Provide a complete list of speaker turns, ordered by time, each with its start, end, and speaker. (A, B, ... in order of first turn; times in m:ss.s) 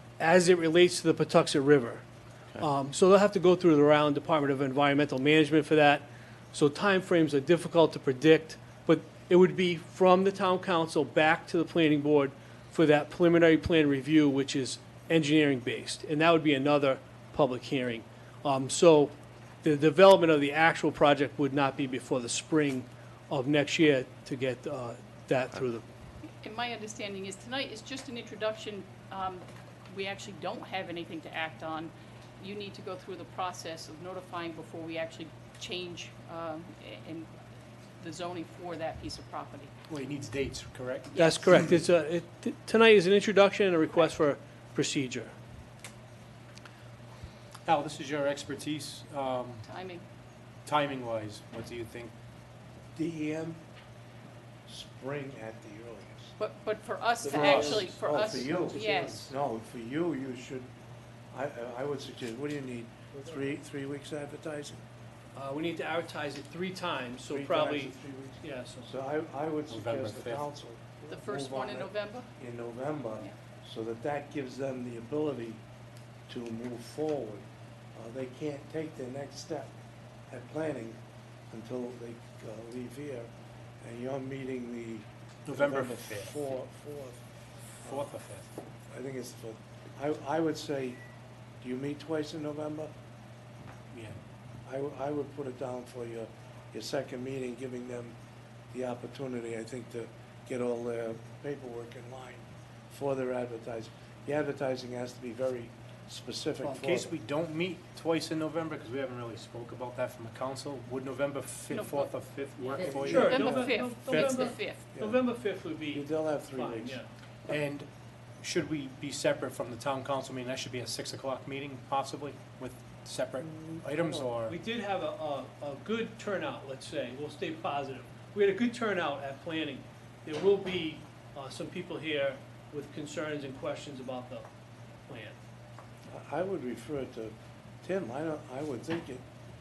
0:00.2-0:02.0 A
0:02.6-0:19.1 A
0:19.6-0:25.8 A
0:26.4-0:37.3 B
0:38.0-0:39.7 B
0:39.9-0:41.2 C
0:41.1-0:41.5 B
0:41.2-0:45.3 A
0:47.6-0:49.6 C
0:49.6-0:50.0 B
0:50.6-0:52.1 C
0:53.0-0:53.6 D
0:54.7-0:56.3 D
0:56.4-0:59.3 B
0:57.2-1:00.7 D
0:57.3-0:57.8 C
1:01.3-1:04.8 D
1:05.3-1:08.9 A
1:07.3-1:15.6 D
1:09.7-1:10.4 C
1:11.1-1:12.3 B
1:16.3-1:17.4 D
1:18.0-1:19.7 D
1:20.3-1:21.0 D
1:21.5-1:23.3 D
1:23.8-1:27.2 D
1:25.5-1:26.4 C
1:27.8-1:28.5 C
1:27.8-1:28.1 D
1:28.9-1:31.0 D
1:31.6-1:32.9 D
1:33.9-1:34.2 C
1:34.7-1:38.2 D
1:38.7-1:47.1 D
1:46.8-1:54.4 C
1:51.7-1:54.8 B
1:52.9-1:53.3 D
1:53.0-1:57.1 A
1:54.9-1:55.2 D
1:55.9-1:57.0 D
1:57.5-1:57.9 C
1:58.4-2:04.6 C
2:03.4-2:04.3 D
2:04.4-2:14.5 A
2:15.1-2:15.4 A
2:16.1-2:19.2 D